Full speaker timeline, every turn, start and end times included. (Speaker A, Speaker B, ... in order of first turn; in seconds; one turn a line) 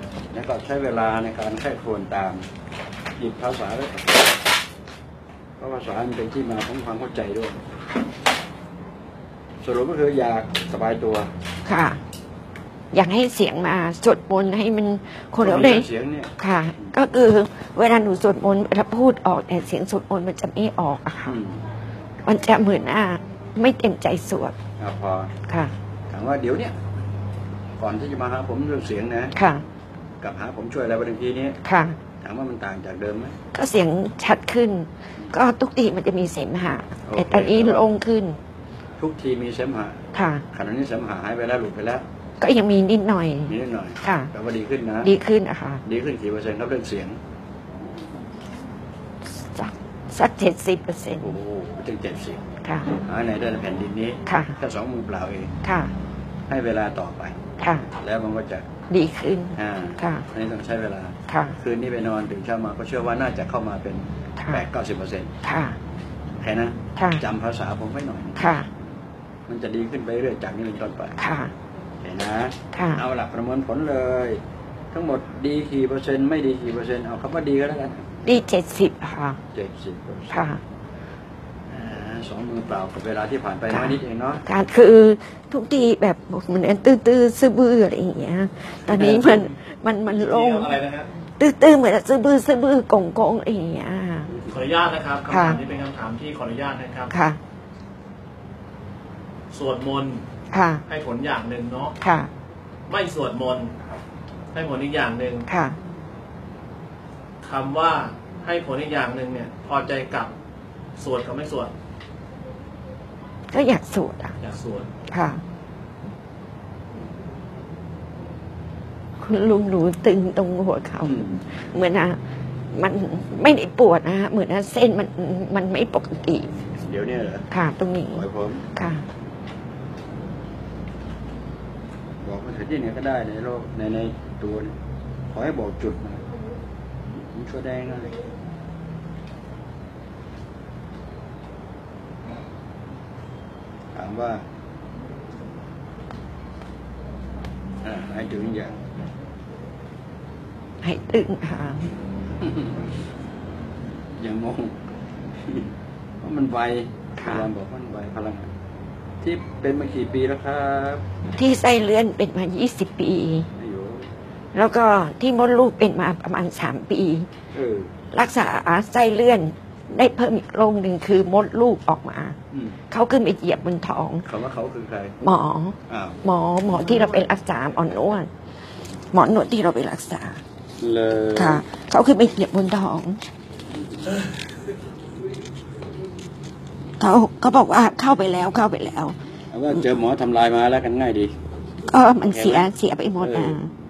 Speaker A: 0.3-2.5
Speaker A: 3.2-4.4
Speaker A: 5.6-7.6
Speaker A: 9.6-11.3
Speaker B: 11.6-12.0
Speaker B: 12.9-21.4
Speaker A: 15.4-16.9
Speaker A: 21.2-21.6
Speaker B: 22.2-24.6
Speaker A: 24.8-25.3
Speaker B: 25.4-25.7
Speaker A: 26.1-26.8
Speaker A: 27.8-29.4
Speaker B: 29.3-29.6
Speaker A: 30.2-31.6
Speaker B: 31.6-32.0
Speaker A: 32.2-33.4
Speaker B: 33.5-38.4
Speaker A: 37.0-37.9
Speaker A: 39.0-42.0
Speaker B: 40.1-40.4
Speaker B: 42.4-44.3
Speaker A: 43.5-45.1
Speaker B: 45.0-45.8
Speaker A: 45.8-47.2
Speaker B: 49.3-51.3
Speaker A: 51.2-52.4
Speaker B: 52.6-53.0
Speaker A: 53.0-55.5
Speaker B: 54.2-54.6
Speaker B: 55.6-55.9
Speaker A: 56.5-58.7
Speaker B: 57.6-57.9
Speaker B: 58.9-60.2
Speaker A: 59.5-65.3
Speaker B: 61.3-61.5
Speaker B: 65.4-65.8
Speaker A: 66.3-68.5
Speaker B: 67.0-67.2
Speaker B: 68.4-68.7
Speaker A: 69.5-71.2
Speaker B: 71.2-71.5
Speaker A: 72.0-78.2
Speaker B: 72.7-73.0
Speaker B: 78.2-79.4
Speaker A: 79.5-80.6
Speaker B: 80.3-80.6
Speaker A: 81.7-84.5
Speaker B: 83.7-90.8
Speaker A: 88.8-89.5
Speaker C: 90.0-91.1
Speaker B: 91.4-94.4
Speaker C: 94.5-97.1
Speaker B: 95.3-95.6
Speaker B: 97.1-97.4
Speaker C: 99.5-100.2
Speaker B: 100.5-100.8
Speaker C: 100.9-101.9
Speaker B: 102.0-102.3
Speaker C: 102.9-103.7
Speaker C: 104.5-105.5
Speaker B: 105.5-105.8
Speaker C: 107.4-110.3
Speaker C: 111.0-111.7
Speaker B: 113.5-114.4
Speaker C: 114.4-114.9
Speaker B: 115.1-115.4
Speaker B: 119.2-122.2
Speaker A: 121.0-121.5
Speaker B: 122.7-126.5
Speaker A: 126.7-127.5
Speaker B: 127.5-129.0
Speaker A: 128.1-128.7
Speaker A: 132.2-134.8
Speaker A: 135.3-136.2
Speaker A: 137.2-138.2
Speaker A: 143.9-144.4
Speaker A: 147.8-148.8
Speaker B: 150.8-151.9
Speaker A: 152.4-152.8
Speaker A: 154.2-154.8
Speaker A: 155.3-158.5
Speaker B: 157.2-157.5
Speaker A: 159.2-161.0
Speaker B: 161.2-163.5
Speaker A: 163.5-164.1
Speaker B: 164.5-167.3
Speaker A: 167.5-167.9
Speaker B: 168.1-172.4
Speaker A: 172.5-172.8
Speaker B: 172.9-174.2
Speaker A: 174.2-175.2
Speaker B: 175.2-178.3
Speaker A: 175.9-177.3
Speaker B: 179.1-180.4
Speaker A: 180.8-181.6
Speaker B: 181.3-183.2
Speaker A: 183.7-184.2
Speaker B: 187.0-189.2
Speaker A: 189.5-191.3
Speaker B: 191.8-193.7
Speaker A: 192.2-193.6